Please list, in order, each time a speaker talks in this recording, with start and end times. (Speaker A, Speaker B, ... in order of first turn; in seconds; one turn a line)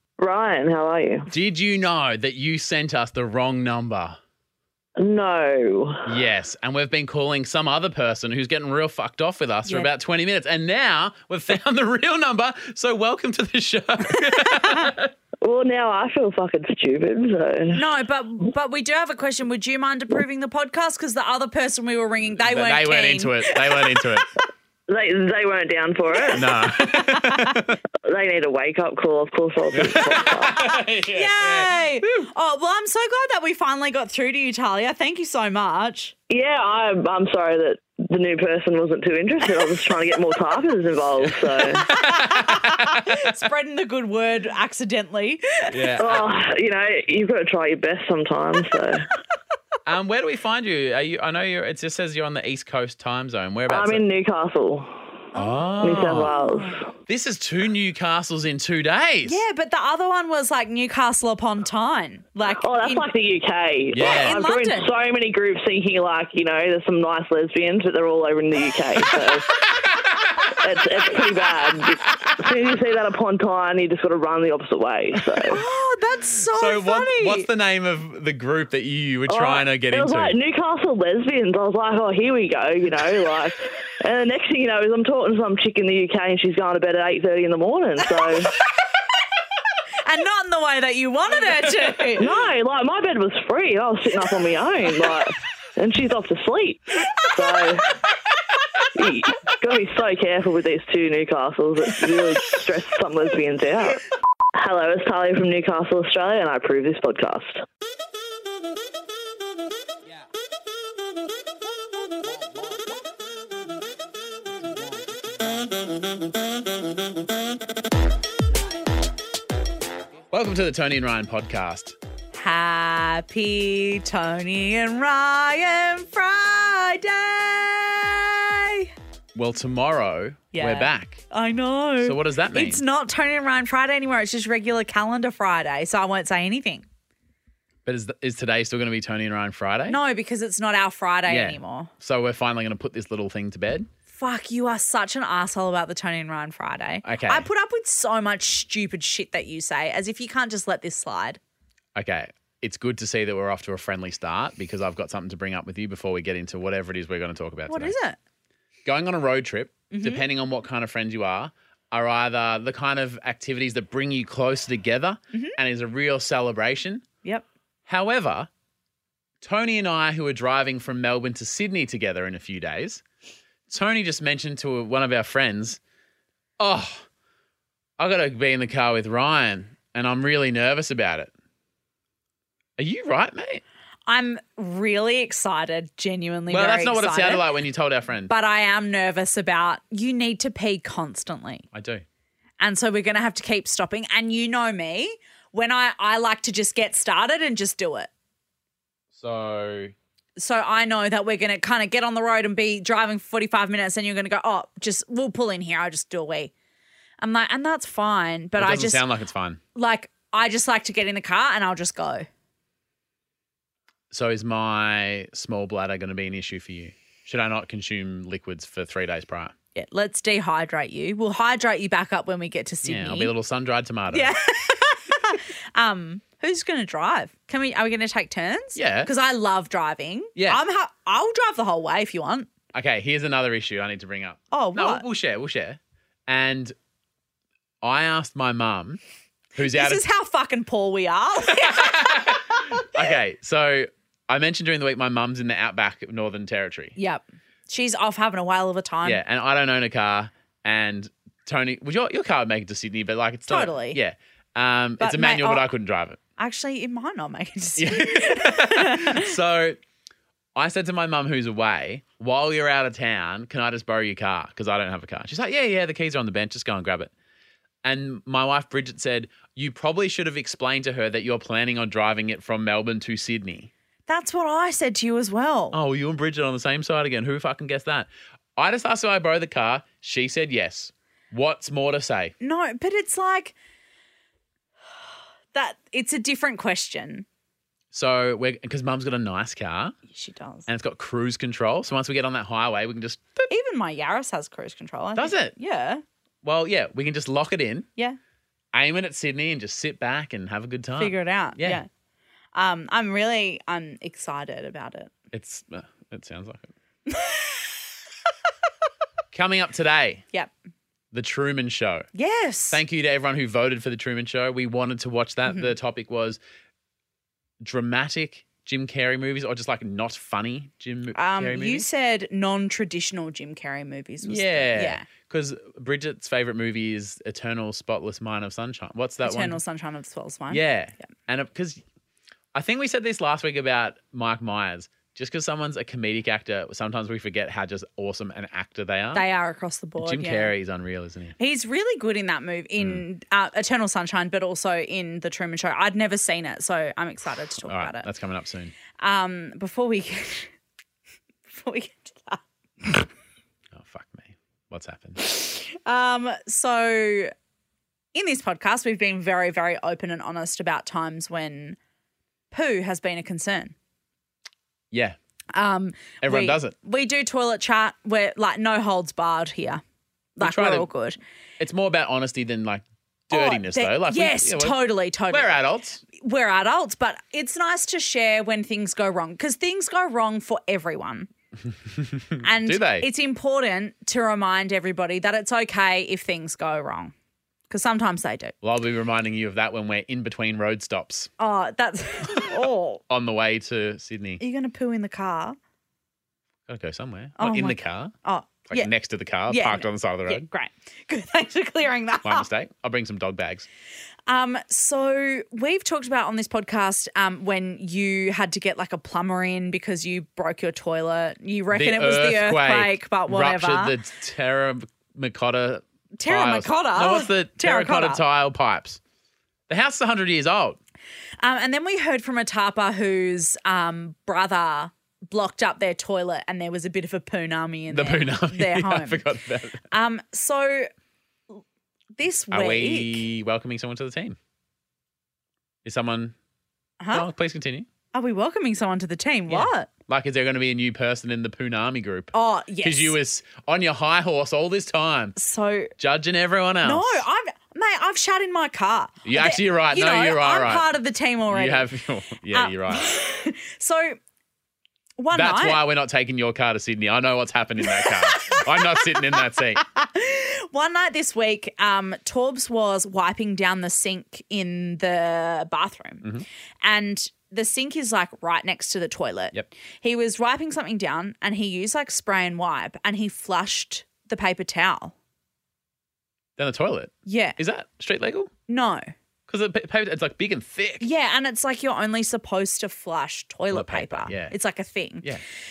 Speaker A: 0.2-1.3
Speaker B: 1.3-4.2
Speaker A: 5.0-6.2
Speaker B: 6.1-15.1
Speaker C: 14.2-14.9
Speaker A: 15.4-17.8
Speaker C: 17.7-24.2
Speaker B: 22.3-24.3
Speaker A: 24.9-26.6
Speaker C: 26.3-27.7
Speaker B: 26.3-27.8
Speaker A: 28.0-30.6
Speaker B: 29.7-32.3
Speaker C: 30.5-36.1
Speaker A: 36.3-41.9
Speaker B: 41.2-43.4
Speaker C: 41.8-45.8
Speaker B: 45.7-46.3
Speaker A: 46.0-49.1
Speaker B: 49.8-54.0
Speaker A: 53.7-55.3
Speaker B: 55.4-56.4
Speaker C: 55.4-55.7
Speaker A: 55.8-56.8
Speaker C: 56.3-56.8
Speaker B: 57.1-59.4
Speaker C: 59.2-63.1
Speaker A: 62.6-69.7
Speaker B: 63.9-64.4
Speaker C: 64.0-64.9
Speaker B: 69.7-70.5
Speaker A: 70.4-75.6
Speaker C: 75.5-77.5
Speaker B: 76.5-80.4
Speaker A: 79.3-88.5
Speaker C: 90.0-92.3
Speaker A: 92.2-98.0
Speaker A: 98.9-107.6
Speaker B: 120.3-122.0
Speaker C: 122.3-128.9
Speaker B: 129.3-131.2
Speaker C: 130.5-136.8
Speaker B: 132.0-132.8
Speaker B: 137.8-140.0
Speaker C: 139.9-141.9
Speaker B: 141.3-143.9
Speaker C: 144.1-151.4
Speaker B: 147.0-147.5
Speaker B: 151.9-157.9
Speaker C: 157.7-158.2
Speaker B: 158.8-167.1
Speaker C: 159.9-160.2
Speaker B: 167.9-168.5
Speaker B: 169.4-173.0
Speaker B: 173.7-175.8
Speaker B: 176.6-177.1
Speaker B: 178.0-181.3
Speaker B: 182.8-183.6
Speaker C: 184.1-187.5
Speaker B: 186.5-188.3
Speaker C: 188.3-191.7
Speaker B: 191.7-192.1
Speaker C: 192.6-198.1
Speaker B: 199.1-199.9
Speaker C: 200.4-206.5
Speaker C: 207.2-209.1
Speaker B: 208.6-209.6
Speaker C: 209.8-212.3
Speaker B: 214.1-219.5
Speaker C: 219.8-223.3
Speaker B: 222.8-224.3
Speaker C: 224.1-232.5
Speaker B: 228.8-229.1
Speaker B: 230.4-230.6
Speaker B: 232.7-236.8
Speaker C: 234.5-235.1
Speaker B: 237.8-239.0
Speaker B: 239.6-240.0
Speaker C: 239.6-242.9
Speaker B: 241.5-246.9
Speaker C: 247.0-249.2
Speaker B: 249.1-256.2
Speaker C: 253.5-254.0
Speaker C: 255.0-255.7
Speaker C: 256.4-259.3
Speaker B: 257.8-259.8
Speaker B: 260.6-267.1
Speaker B: 267.8-273.7
Speaker C: 274.1-275.8
Speaker B: 275.7-282.3
Speaker C: 282.4-283.6
Speaker C: 285.5-287.3
Speaker B: 287.9-289.9
Speaker C: 290.1-290.7
Speaker B: 290.7-293.5
Speaker C: 293.5-296.0
Speaker B: 295.2-295.5
Speaker B: 296.4-297.9
Speaker B: 298.7-301.8
Speaker C: 301.0-301.9
Speaker C: 302.6-305.1
Speaker B: 305.3-306.7
Speaker C: 307.1-307.6
Speaker B: 309.3-310.2
Speaker B: 311.1-312.1
Speaker C: 312.1-312.8
Speaker B: 312.7-316.4
Speaker C: 315.5-315.7
Speaker B: 317.6-321.9
Speaker C: 321.1-325.1
Speaker B: 324.2-329.6
Speaker C: 329.2-330.6
Speaker B: 330.5-331.8
Speaker B: 332.5-339.2
Speaker C: 339.1-340.5
Speaker B: 340.0-341.4
Speaker C: 341.4-348.1
Speaker B: 347.6-348.7
Speaker C: 349.0-350.5
Speaker C: 351.5-353.1
Speaker B: 353.7-355.2
Speaker C: 355.2-357.3
Speaker C: 358.1-361.8
Speaker C: 362.5-363.8
Speaker B: 364.9-365.2
Speaker C: 365.5-369.8
Speaker B: 366.2-366.7
Speaker C: 370.4-371.2
Speaker B: 370.4-370.9
Speaker B: 371.6-374.8
Speaker C: 373.3-381.3
Speaker B: 375.3-376.0
Speaker B: 381.9-383.1
Speaker C: 382.4-387.1
Speaker C: 387.7-388.5
Speaker B: 388.6-391.3
Speaker C: 391.4-393.0
Speaker B: 392.3-394.4
Speaker C: 394.4-395.6
Speaker B: 396.7-398.1
Speaker C: 397.4-398.9
Speaker B: 398.7-400.5
Speaker C: 399.5-402.5
Speaker B: 402.2-403.7
Speaker C: 404.3-414.0
Speaker B: 411.7-419.0
Speaker C: 416.2-418.2
Speaker B: 419.7-420.8
Speaker C: 421.4-429.2
Speaker B: 427.9-429.8
Speaker C: 429.9-430.9
Speaker C: 432.2-433.2
Speaker B: 432.5-434.4
Speaker B: 435.8-436.4
Speaker C: 437.0-437.3
Speaker B: 437.1-437.9
Speaker C: 438.1-439.9
Speaker B: 439.5-445.4
Speaker C: 442.3-443.1
Speaker C: 445.4-445.9
Speaker B: 446.0-447.2
Speaker C: 446.8-451.9
Speaker B: 449.2-450.9
Speaker B: 451.5-453.2
Speaker C: 452.5-454.2
Speaker C: 455.2-455.8
Speaker B: 455.3-459.8
Speaker C: 457.8-466.3
Speaker C: 466.8-475.1
Speaker B: 476.6-478.5
Speaker C: 477.3-477.6
Speaker C: 478.7-479.1
Speaker B: 479.5-481.1
Speaker C: 481.0-485.3
Speaker B: 483.7-484.5